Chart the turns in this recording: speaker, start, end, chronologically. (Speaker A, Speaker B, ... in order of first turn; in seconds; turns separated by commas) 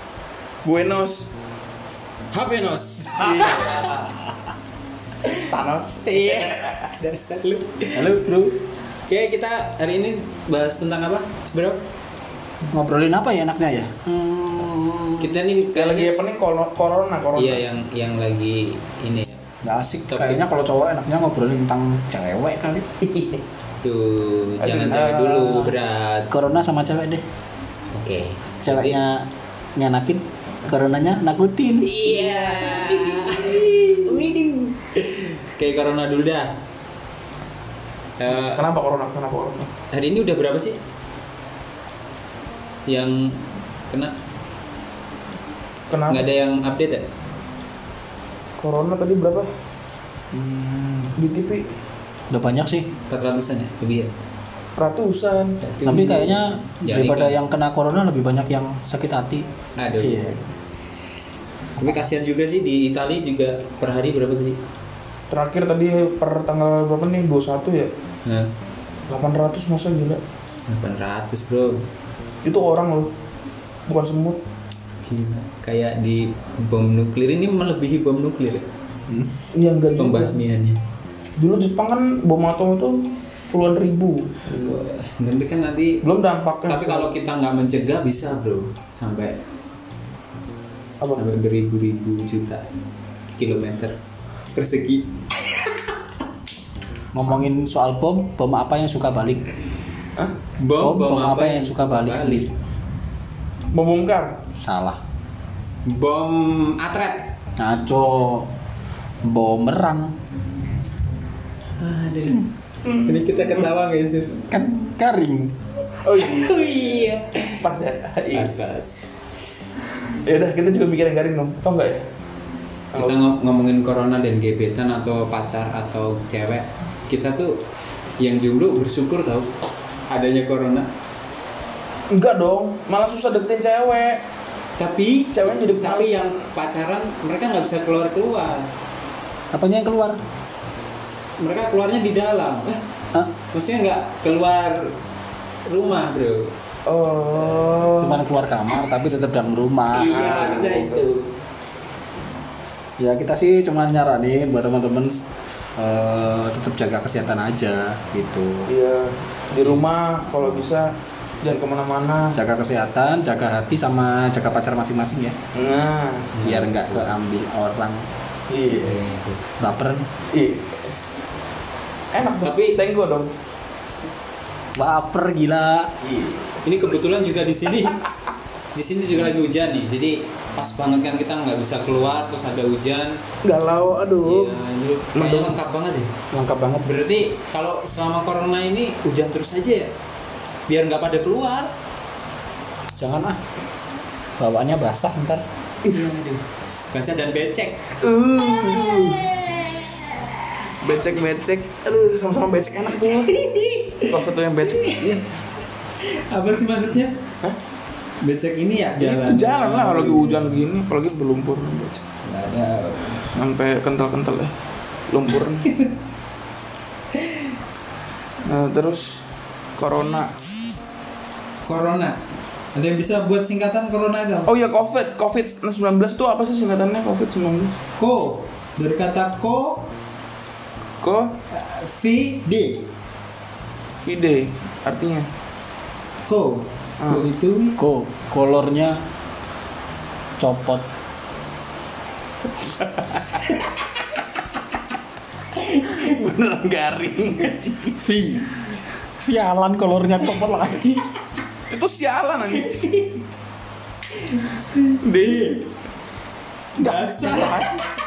Speaker A: 0.6-1.3, Speaker B: 2.3-4.2, Speaker A: 3.1-3.9, Speaker A: 5.5-6.9, Speaker B: 6.0-8.2, Speaker C: 8.0-8.6, Speaker B: 9.1-11.8, Speaker C: 12.7-15.5, Speaker B: 15.2-16.2, Speaker A: 15.7-17.6, Speaker B: 17.4-19.4, Speaker C: 19.6-22.9, Speaker B: 20.1-20.4, Speaker B: 23.1-26.3, Speaker A: 24.6-25.7, Speaker C: 26.3-27.2, Speaker B: 27.9-29.0, Speaker C: 28.6-31.9, Speaker B: 31.8-36.6, Speaker B: 38.2-38.6, Speaker A: 38.3-39.7, Speaker B: 39.9-40.8, Speaker B: 42.9-44.1, Speaker A: 45.9-46.3, Speaker B: 46.1-47.1, Speaker A: 48.6-49.5, Speaker A: 50.3-51.6, Speaker C: 52.3-52.9, Speaker B: 53.1-54.1, Speaker A: 54.8-55.6, Speaker B: 55.6-57.4, Speaker C: 55.9-60.4, Speaker B: 59.8-60.4, Speaker B: 61.8-64.6, Speaker A: 65.3-67.9, Speaker B: 68.2-68.5, Speaker A: 69.1-70.2, Speaker B: 70.7-71.9, Speaker A: 72.4-73.1, Speaker A: 73.9-74.4, Speaker B: 75.0-78.7, Speaker A: 79.5-80.4, Speaker B: 80.0-80.8, Speaker A: 81.4-83.0, Speaker A: 83.5-84.7, Speaker B: 84.5-86.0, Speaker A: 86.0-87.1, Speaker B: 86.7-89.4, Speaker B: 91.0-92.6, Speaker B: 93.4-94.0, Speaker B: 94.5-95.6, Speaker C: 97.1-99.5, Speaker B: 100.6-102.5, Speaker C: 100.8-102.5, Speaker A: 103.7-104.4, Speaker C: 104.6-105.0, Speaker B: 105.9-107.3, Speaker C: 107.6-108.5, Speaker C: 109.2-110.1, Speaker B: 111.8-112.5, Speaker A: 112.8-113.3, Speaker B: 113.0-114.4, Speaker C: 114.5-115.5, Speaker A: 116.0-118.5, Speaker B: 116.1-117.6, Speaker B: 118.3-119.0, Speaker A: 120.1-122.1, Speaker A: 122.9-123.2, Speaker B: 123.0-127.6, Speaker B: 128.2-129.5, Speaker B: 130.1-130.9, Speaker A: 132.1-134.2, Speaker B: 134.8-138.7, Speaker A: 135.3-136.4, Speaker C: 139.5-140.2, Speaker B: 141.4-142.8, Speaker B: 143.5-144.9, Speaker B: 145.7-146.5, Speaker A: 146.9-148.2, Speaker C: 148.0-150.8, Speaker B: 149.9-151.3, Speaker A: 149.9-151.1, Speaker C: 153.0-155.2, Speaker C: 155.8-158.7, Speaker A: 158.7-160.9, Speaker A: 161.4-162.4, Speaker C: 162.3-165.4, Speaker A: 165.6-166.3, Speaker B: 166.4-167.1, Speaker C: 166.4-168.1, Speaker A: 168.5-169.0, Speaker B: 168.7-169.4, Speaker C: 169.6-170.1, Speaker A: 170.3-171.0, Speaker A: 172.1-173.3, Speaker B: 172.4-172.8, Speaker C: 174.8-175.9, Speaker A: 176.1-176.4, Speaker B: 176.6-178.0, Speaker B: 178.7-183.2, Speaker A: 183.4-184.6, Speaker B: 184.2-186.1, Speaker A: 185.1-185.6, Speaker C: 186.3-186.9, Speaker B: 186.8-189.9, Speaker B: 190.7-191.7, Speaker C: 193.0-193.4, Speaker C: 194.4-195.4, Speaker B: 195.8-197.8, Speaker A: 198.0-199.3, Speaker B: 198.9-200.2, Speaker A: 200.8-203.3, Speaker B: 203.1-204.2, Speaker A: 204.1-205.4, Speaker B: 204.7-205.1, Speaker B: 206.0-207.2, Speaker B: 208.2-210.5, Speaker A: 209.0-212.0, Speaker B: 212.2-213.3, Speaker A: 213.3-214.5, Speaker A: 215.1-215.7, Speaker A: 218.4-219.2, Speaker A: 219.8-220.3, Speaker B: 221.7-222.2, Speaker B: 222.7-224.5, Speaker A: 224.5-227.8, Speaker B: 228.0-229.9, Speaker A: 231.0-231.3, Speaker B: 231.5-232.9, Speaker A: 234.1-235.3, Speaker B: 236.3-237.8, Speaker A: 237.0-237.3, Speaker C: 237.8-239.0, Speaker C: 240.4-240.8, Speaker A: 242.8-243.6, Speaker A: 245.6-248.0, Speaker C: 248.0-248.6, Speaker C: 249.2-251.0, Speaker A: 251.7-252.8, Speaker B: 252.6-253.1, Speaker B: 254.3-255.6, Speaker A: 255.0-255.6, Speaker C: 256.8-257.7, Speaker B: 256.8-257.6